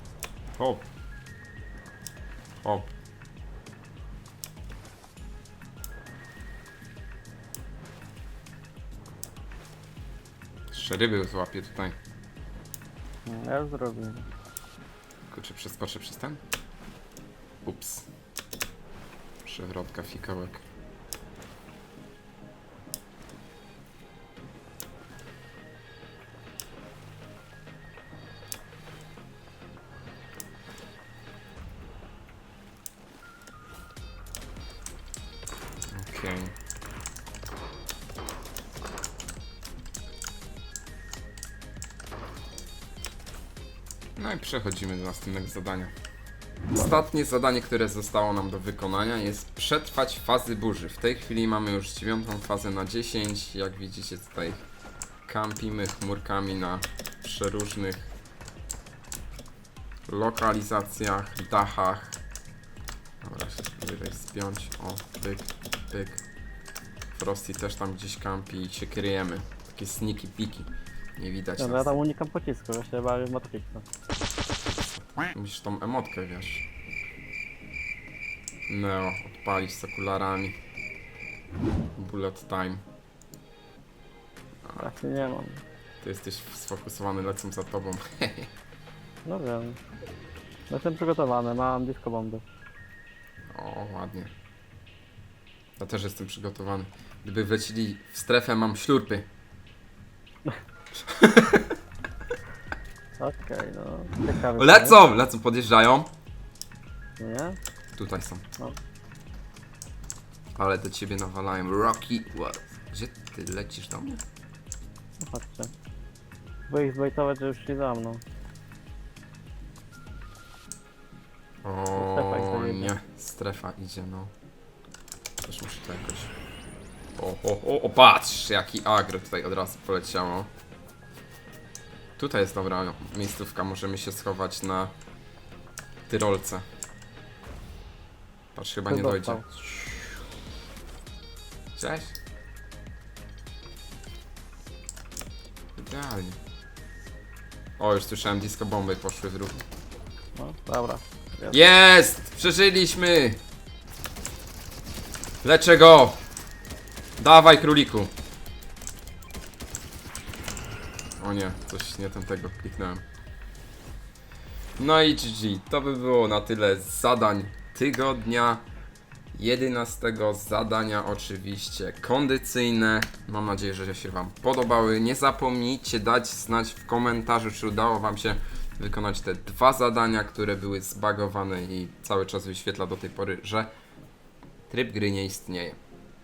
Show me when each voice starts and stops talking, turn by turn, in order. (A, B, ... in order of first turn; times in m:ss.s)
0:00.6-0:00.8 A
0:02.6-0:02.9 A
0:10.7-0:11.9 A
0:13.2-0:14.2 B
0:15.3-0:16.4 A
0:17.6-0:18.1 A
0:19.4-0:20.6 A
0:35.9-0:36.5 A
0:44.2-0:45.9 A
0:46.7-0:54.6 A
0:55.2-0:58.1 A
1:00.1-1:02.2 A
1:03.2-1:06.2 A
1:07.1-1:12.0 A
1:11.6-1:13.8 B
1:15.1-1:16.7 A
1:18.7-1:20.6 A
1:22.0-1:22.8 A
1:24.6-1:24.9 A
1:24.8-1:25.6 B
1:26.0-1:28.5 A
1:29.2-1:29.8 B
1:30.7-1:32.4 B
1:33.5-1:34.3 A
1:35.8-1:39.3 A
1:41.1-1:41.8 A
1:43.2-1:45.0 B
1:44.6-1:46.1 A
1:47.2-1:47.6 B
1:48.0-1:48.4 A
1:50.6-1:54.2 A
1:55.2-1:55.7 B
1:56.7-1:58.2 B
2:01.6-2:04.3 A
2:01.9-2:02.9 B
2:05.4-2:06.3 A
2:07.2-2:10.5 A
2:12.2-2:14.9 A
2:16.1-2:16.6 A
2:18.5-2:19.4 A
2:18.9-2:20.2 B
2:21.7-2:22.1 A
2:25.8-2:26.4 A
2:27.8-2:29.6 A
2:30.4-2:31.6 B
2:31.5-2:33.4 A
2:35.4-2:36.2 A
2:37.2-2:38.1 A
2:41.2-2:43.0 A
2:44.8-2:48.6 A
2:49.3-3:03.7 A
3:04.7-3:05.8 A